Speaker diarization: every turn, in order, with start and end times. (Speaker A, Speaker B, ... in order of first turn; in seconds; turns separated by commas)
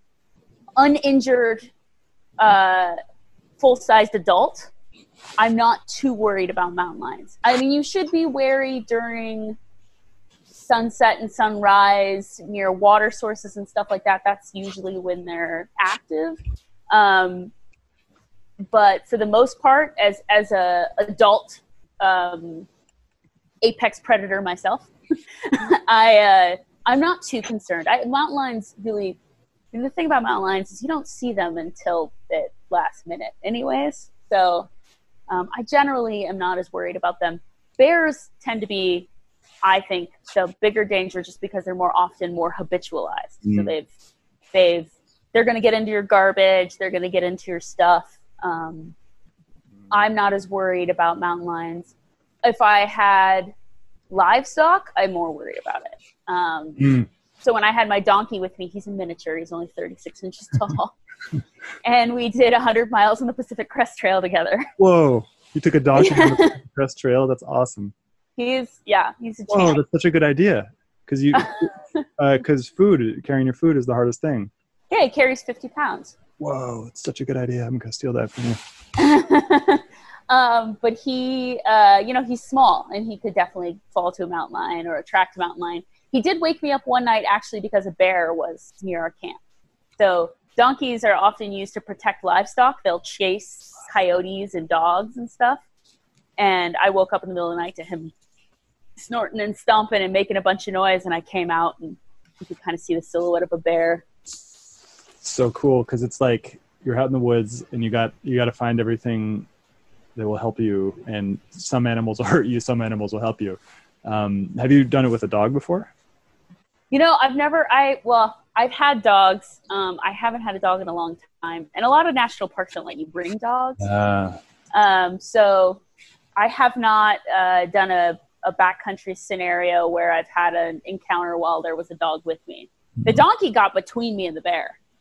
Speaker A: 0.8-1.7, Speaker A: 2.4-3.0, Speaker A: 3.6-4.7, Speaker A: 5.4-9.6, Speaker A: 10.5-16.4, Speaker A: 16.9-17.5, Speaker A: 18.7-22.7, Speaker A: 23.6-24.9, Speaker A: 25.4-29.2, Speaker A: 29.7-34.7, Speaker A: 35.3-39.1, Speaker A: 39.6-43.9, Speaker B: 43.4-43.7, Speaker A: 44.5-48.9, Speaker A: 49.9-51.9, Speaker A: 52.4-53.5, Speaker A: 54.1-60.9, Speaker B: 56.8-57.1, Speaker A: 61.8-64.7, Speaker B: 64.8-67.9, Speaker A: 66.0-66.5, Speaker A: 68.4-69.8, Speaker B: 69.5-71.5, Speaker A: 71.3-72.0, Speaker B: 72.2-74.5, Speaker A: 74.9-76.2, Speaker B: 76.4-78.6, Speaker A: 79.0-89.4, Speaker A: 90.0-95.6, Speaker A: 96.4-98.1, Speaker A: 99.0-104.0, Speaker B: 105.2-109.5, Speaker B: 110.2-115.9, Speaker A: 116.9-123.8, Speaker B: 123.8-124.4, Speaker A: 124.7-125.8, Speaker A: 126.4-134.8